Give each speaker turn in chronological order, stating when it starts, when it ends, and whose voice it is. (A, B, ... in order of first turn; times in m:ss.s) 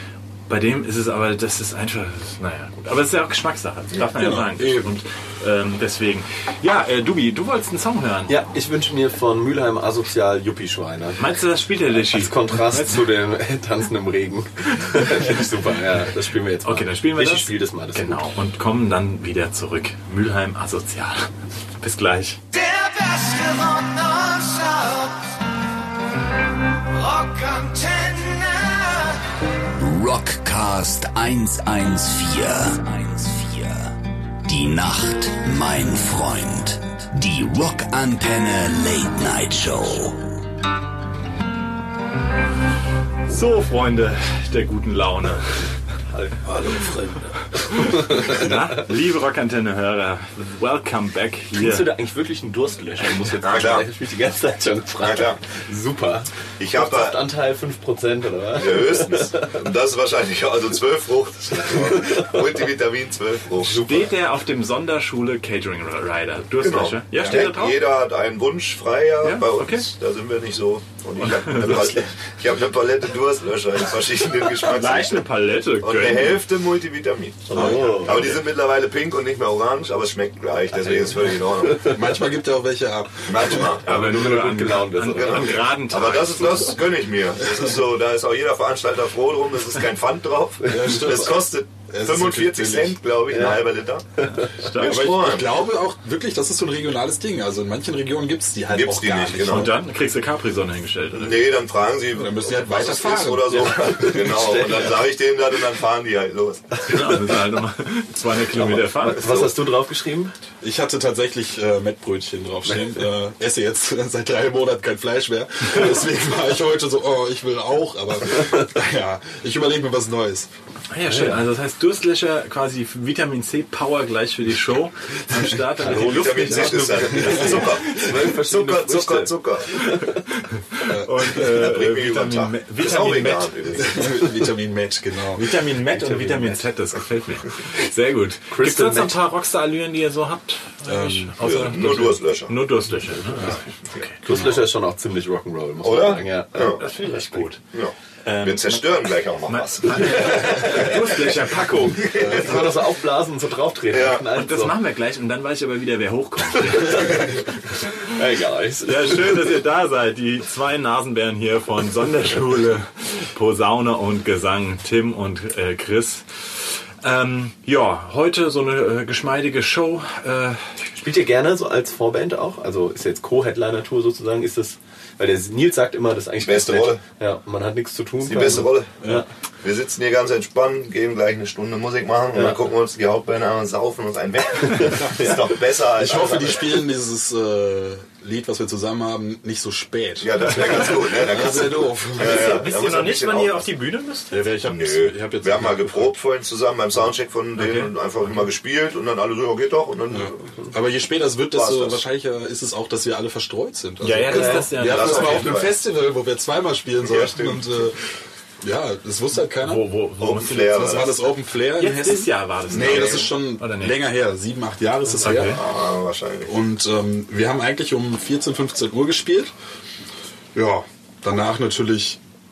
0:00.5-0:08.4 A
0:04.2-0:04.9 B
0:08.3-0:11.3 C
0:11.2-0:13.1 A
0:11.9-0:18.2 C
0:14.8-0:15.4 A
0:16.6-0:22.4 A
0:22.5-0:25.3 D
0:26.9-0:29.2 D
0:29.8-0:33.9 E
0:34.4-0:40.3 E
0:43.2-0:45.8 A
0:46.1-0:46.9 C
0:46.5-0:47.3 B
0:47.5-0:51.9 A
0:47.7-0:48.6 C
0:51.5-0:59.5 C
0:53.4-0:53.9 F
0:55.0-0:55.4 F
0:56.6-0:57.2 F
0:58.6-1:04.0 F
1:01.7-1:02.4 C
1:03.6-1:07.8 A
1:03.6-1:04.1 C
1:06.6-1:15.3 F
1:09.2-1:09.9 A
1:11.2-1:12.0 A
1:14.6-1:16.4 A
1:15.8-1:22.0 F
1:17.5-1:18.3 C
1:17.5-1:18.4 A
1:17.5-1:17.9 B
1:20.7-1:22.0 C
1:21.8-1:23.8 B
1:23.2-1:24.0 F
1:23.7-1:26.8 A
1:23.8-1:25.6 C
1:25.1-1:34.1 F
1:30.6-1:33.0 B
1:33.3-1:33.6 C
1:34.2-1:34.6 C
1:34.3-1:35.2 A
1:34.7-1:35.5 F
1:34.8-1:39.8 B
1:38.7-1:39.7 F
1:39.4-1:41.4 A
1:41.1-1:47.0 F
1:42.1-1:44.3 B
1:43.5-1:45.1 C
1:46.9-1:49.5 A
1:48.6-1:49.5 F
1:48.6-1:50.3 C
1:50.6-2:00.5 B
1:58.3-1:58.7 C
2:00.9-2:08.0 A
2:01.1-2:01.4 C
2:05.8-2:09.8 F
2:06.2-2:10.2 C
2:07.1-2:07.8 B
2:10.0-2:13.9 A
2:10.8-2:11.5 B
2:11.4-2:14.1 F
2:13.8-2:15.5 B
2:15.3-2:24.2 A
2:15.9-2:16.6 C
2:18.5-2:19.2 C
2:20.8-2:21.4 B
2:21.4-2:22.6 F
2:24.2-2:27.0 C
2:25.8-2:26.8 F
2:26.6-2:27.6 A
2:27.7-2:32.8 F
2:28.2-2:32.3 A
2:30.5-2:30.9 C
2:32.0-2:34.8 C
2:32.2-2:32.6 B
2:33.9-2:34.2 F
2:34.3-2:37.4 A
2:36.6-2:39.4 C
2:38.8-2:50.9 A
2:50.9-2:59.2 C
2:56.4-2:57.0 F
2:58.2-2:58.9 F
2:59.6-3:06.7 F
3:02.3-3:02.6 C
3:04.5-3:05.5 C
3:06.0-3:12.6 B
3:10.2-3:13.6 F
3:12.2-3:14.4 A
3:14.3-3:16.1 B
3:14.6-3:20.4 F
3:17.6-3:17.9 A
3:20.1-3:28.1 B
3:21.5-3:22.0 F
3:24.0-3:25.6 A
3:24.3-3:24.7 C
3:24.5-3:25.7 F
3:27.0-3:27.9 F
3:28.6-3:29.8 B
3:29.6-3:31.1 A
3:30.2-3:31.2 F
3:30.7-3:35.6 B
3:31.8-3:34.0 A
3:32.7-3:33.3 F
3:35.2-3:35.6 A
3:35.4-3:36.5 F
3:36.4-3:39.5 B
3:40.5-3:42.2 B